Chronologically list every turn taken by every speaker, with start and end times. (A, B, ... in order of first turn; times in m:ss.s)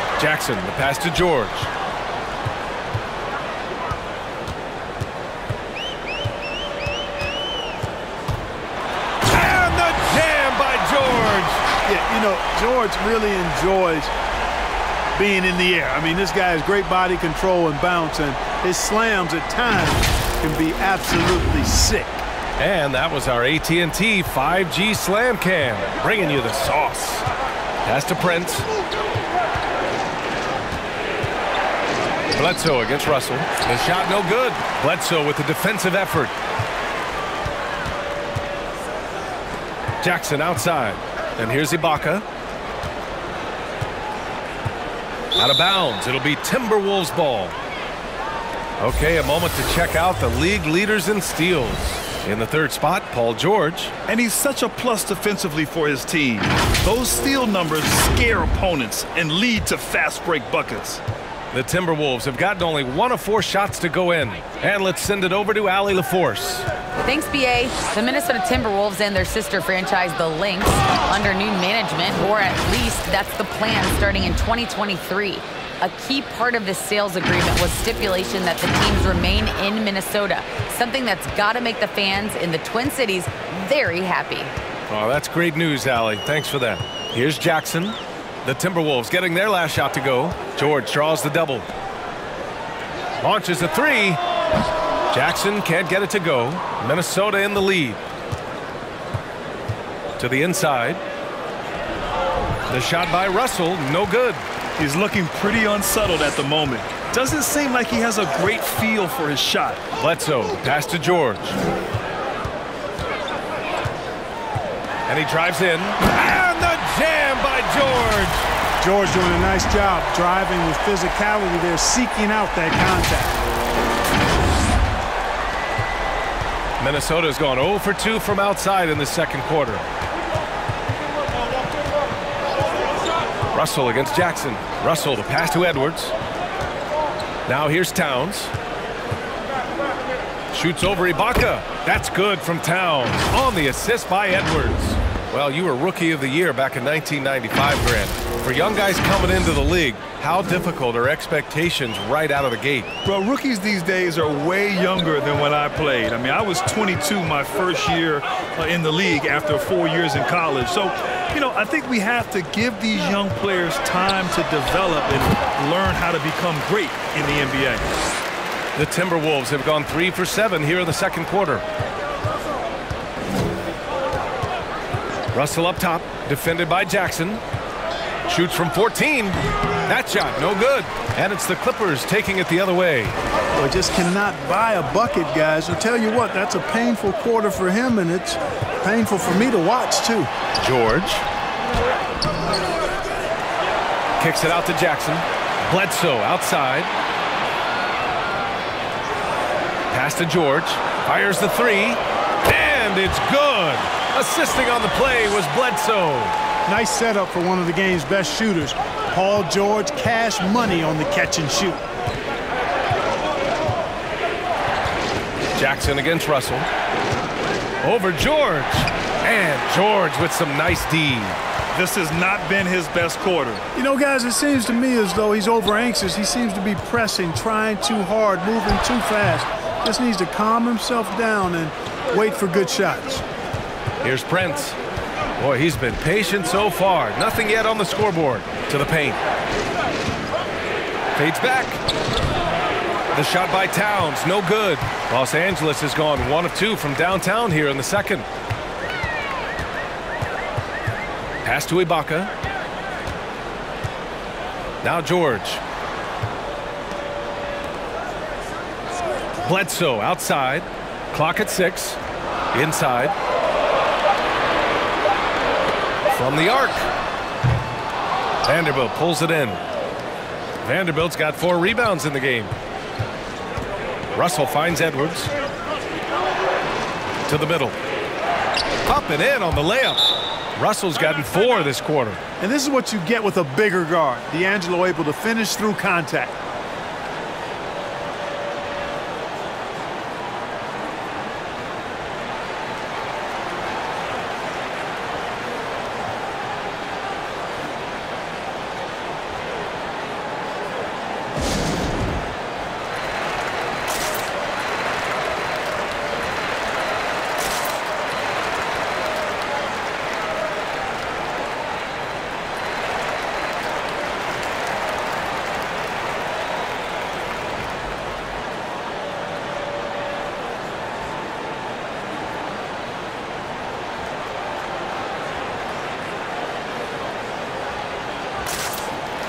0:00.2-0:01.7 A
0:09.3-0:11.6 A
0:11.8-0:14.1 B
0:15.1-0:22.2 B
0:22.6-0:27.2 A
0:27.8-0:28.7 A
0:32.3-0:36.3 A
0:40.0-0:42.2 A
0:45.4-0:47.5 A
0:48.8-0:53.9 A
0:54.1-1:01.0 C
1:01.5-1:06.7 A
1:07.0-1:24.5 D
1:24.9-1:31.7 A
1:33.2-1:34.2 A
1:35.1-1:38.0 A
1:40.2-1:41.0 A
1:42.7-1:44.4 A
1:44.8-1:49.8 C
1:50.0-1:51.6 A
1:55.1-1:58.4 A
1:58.8-2:03.4 B
2:06.8-2:09.8 A
2:13.5-2:16.1 A
2:17.5-2:18.5 A
2:20.5-2:32.9 A
2:33.0-2:47.9 C
2:48.8-2:51.6 A
2:55.3-2:57.4 A
2:58.3-3:03.2 A
3:03.6-3:10.3 B
3:10.6-3:11.2 A
3:14.2-3:16.9 A
3:19.9-3:26.4 A
3:26.6-3:31.8 B
3:35.5-3:36.6 A
3:37.8-3:41.4 A
3:41.7-3:43.6 C
3:43.7-3:53.2 B
3:54.0-3:54.8 A
3:55.4-3:59.2 A
4:01.1-4:01.8 A
4:03.1-4:08.2 A
4:11.4-4:12.3 A
4:14.8-4:15.6 A
4:19.4-4:22.0 A
4:22.5-4:23.2 A
4:26.1-4:26.9 A
4:28.4-4:29.6 A
4:30.6-4:32.5 A
4:34.1-4:35.3 A
4:37.2-4:37.8 A
4:38.8-4:42.2 A
4:42.4-4:46.4 B